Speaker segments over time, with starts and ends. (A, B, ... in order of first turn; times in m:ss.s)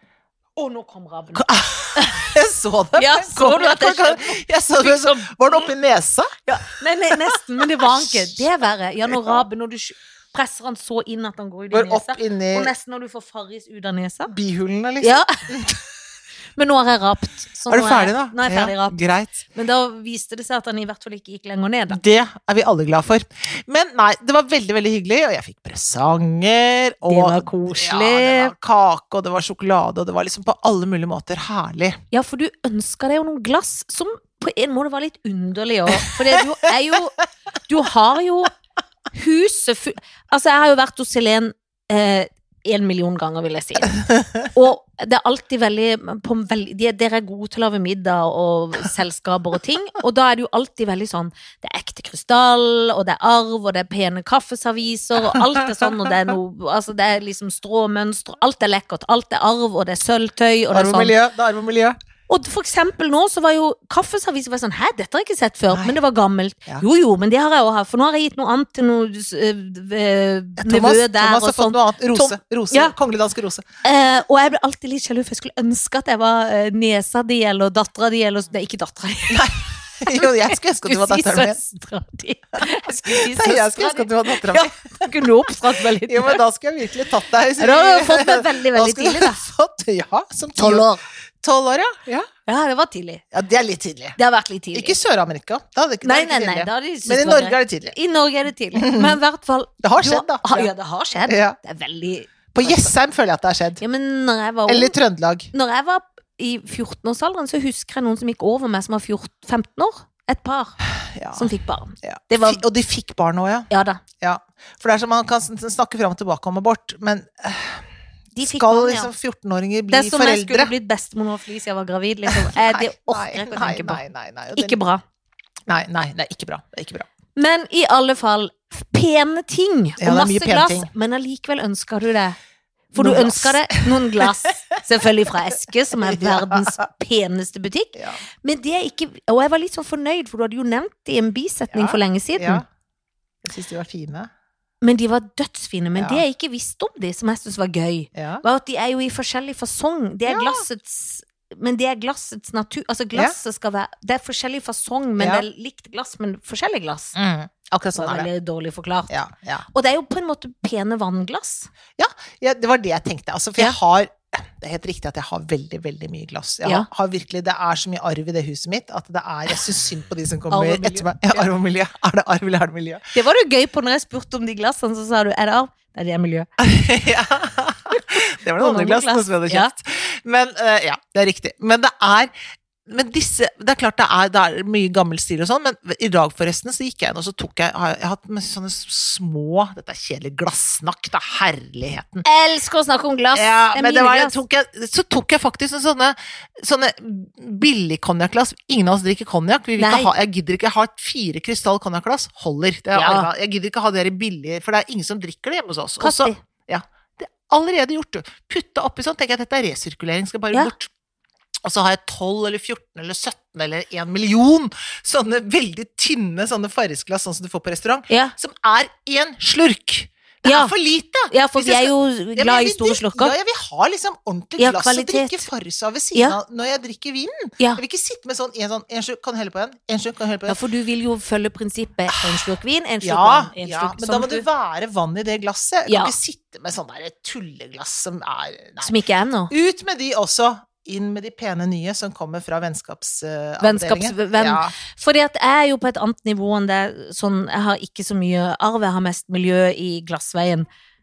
0:00.6-0:02.3 A
0:01.3-0:06.3 B
0:03.0-0:05.4 A
0:06.4-0:14.3 A
0:07.1-0:08.4 B
0:09.1-0:09.4 B
0:11.7-0:12.7 B
0:14.3-0:15.8 B
0:15.0-0:15.3 A
0:16.6-0:19.0 A
0:17.7-0:19.4 B
0:19.5-0:22.0 A
0:21.9-0:32.0 B
0:27.1-0:28.5 A
0:32.1-0:38.5 A
0:36.0-0:36.4 B
0:39.1-1:01.1 A
0:55.3-0:56.1 B
1:00.7-1:02.0 B
1:02.3-1:12.9 A
1:05.7-1:06.0 B
1:10.6-1:13.6 B
1:13.8-1:19.4 A
1:19.3-1:21.6 B
1:20.0-1:26.4 A
1:22.9-1:30.9 B
1:27.6-1:29.4 A
1:30.6-1:31.0 A
1:31.4-1:32.3 B
1:32.4-1:33.2 A
1:33.3-1:34.2 B
1:34.2-1:35.0 A
1:34.7-1:37.9 B
1:36.0-1:42.9 A
1:38.8-1:39.2 B
1:39.8-1:40.7 B
1:41.3-1:41.6 B
1:42.5-1:43.8 B
1:43.8-1:45.0 A
1:44.7-1:45.5 B
1:45.5-1:50.8 A
1:51.0-1:51.5 B
1:51.3-1:52.6 A
1:52.0-1:53.7 B
1:53.7-1:54.0 A
1:54.2-1:57.9 B
1:58.3-1:59.1 A
1:58.4-2:00.7 B
1:59.9-2:04.0 A
2:02.3-2:04.8 B
2:04.5-2:05.0 A
2:05.7-2:07.1 B
2:07.4-2:12.4 A
2:10.0-2:10.9 B
2:12.9-2:22.6 A
2:13.0-2:14.3 B
2:15.9-2:16.8 B
2:17.9-2:18.2 B
2:21.7-2:22.6 B
2:23.4-2:24.3 B
2:24.8-2:37.2 A
2:26.0-2:26.2 B
2:28.1-2:28.4 B
2:30.2-2:30.6 B
2:35.2-2:35.4 B
2:37.1-2:38.3 B
2:38.0-2:39.1 A
2:39.1-2:39.6 B
2:39.7-2:41.7 A
2:42.0-2:53.0 B
2:50.5-2:51.4 A
2:53.1-2:56.5 A
2:56.6-3:02.3 B
2:57.9-2:59.7 A
3:02.8-3:12.2 B
3:12.2-3:14.4 A
3:13.3-3:30.9 B
3:19.8-3:20.1 A
3:22.9-3:23.3 A
3:26.0-3:26.4 A
3:31.6-3:50.6 B
3:40.4-3:40.7 A
3:41.3-3:43.3 A
3:44.6-3:45.5 A
3:50.5-3:54.4 A
3:52.2-3:52.5 B
3:53.0-3:58.9 B
3:55.9-3:56.1 A
3:58.8-3:59.5 A
3:59.5-4:04.7 B
4:03.6-4:10.7 A